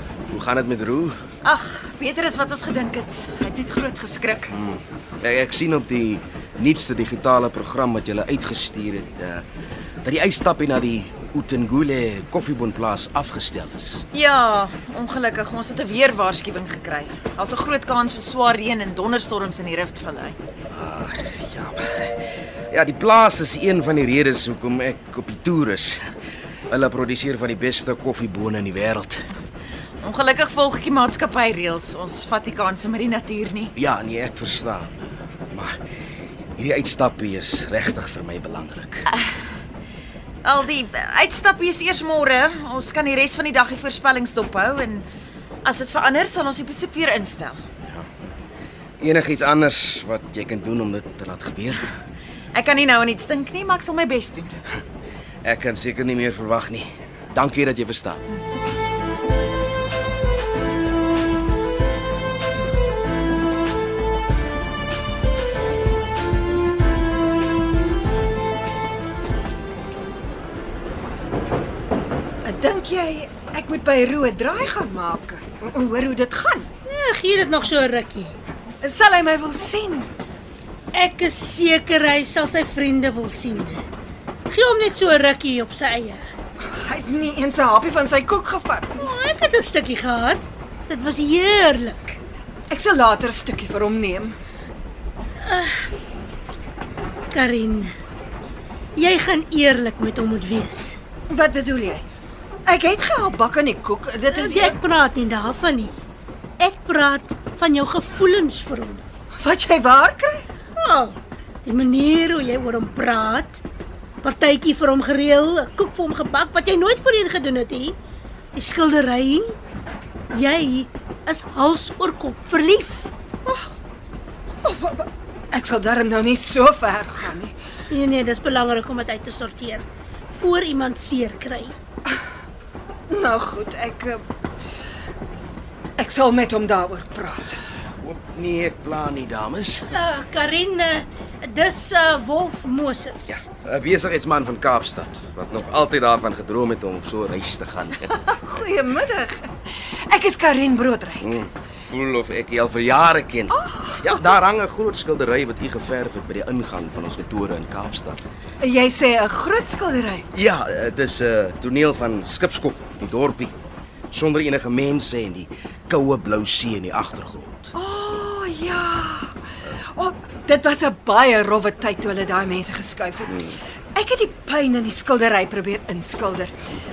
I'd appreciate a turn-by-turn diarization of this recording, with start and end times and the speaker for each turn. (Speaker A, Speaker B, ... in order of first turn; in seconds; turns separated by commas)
Speaker A: 0.3-1.2, Speaker B: 1.4-4.5, Speaker A: 4.5-9.4, Speaker A: 10.0-14.0, Speaker B: 14.1-20.4, Speaker A: 20.7-26.0, Speaker A: 26.7-29.2, Speaker B: 30.0-33.7, Speaker A: 33.8-35.8, Speaker A: 36.6-39.1, Speaker B: 40.4-45.1, Speaker B: 45.6-47.6, Speaker A: 47.9-48.3, Speaker A: 49.0-51.9, Speaker B: 52.5-54.6, Speaker A: 55.4-58.2, Speaker C: 72.4-76.7, Speaker D: 76.9-78.3, Speaker C: 78.8-80.1, Speaker D: 80.9-83.8, Speaker D: 84.5-86.2, Speaker C: 86.8-89.0, Speaker D: 89.0-92.2, Speaker C: 92.7-94.4, Speaker D: 95.4-95.9, Speaker D: 97.3-97.9, Speaker D: 99.0-101.0, Speaker C: 101.3-102.0, Speaker C: 102.7-104.8, Speaker D: 104.3-106.0, Speaker D: 106.6-109.0, Speaker C: 109.4-110.5, Speaker D: 110.8-113.6, Speaker D: 114.2-118.0, Speaker D: 118.5-119.5, Speaker D: 120.3-123.1, Speaker C: 124.6-127.5, Speaker D: 127.9-131.8, Speaker C: 133.1-134.2, Speaker C: 136.0-137.6, Speaker A: 138.0-139.9, Speaker D: 139.9-143.4, Speaker A: 143.3-148.1, Speaker C: 148.1-151.3, Speaker A: 151.2-158.2, Speaker C: 153.5-154.2, Speaker C: 158.6-160.3, Speaker A: 160.3-163.5, Speaker A: 164.1-167.7, Speaker C: 167.8-169.3, Speaker C: 169.9-176.5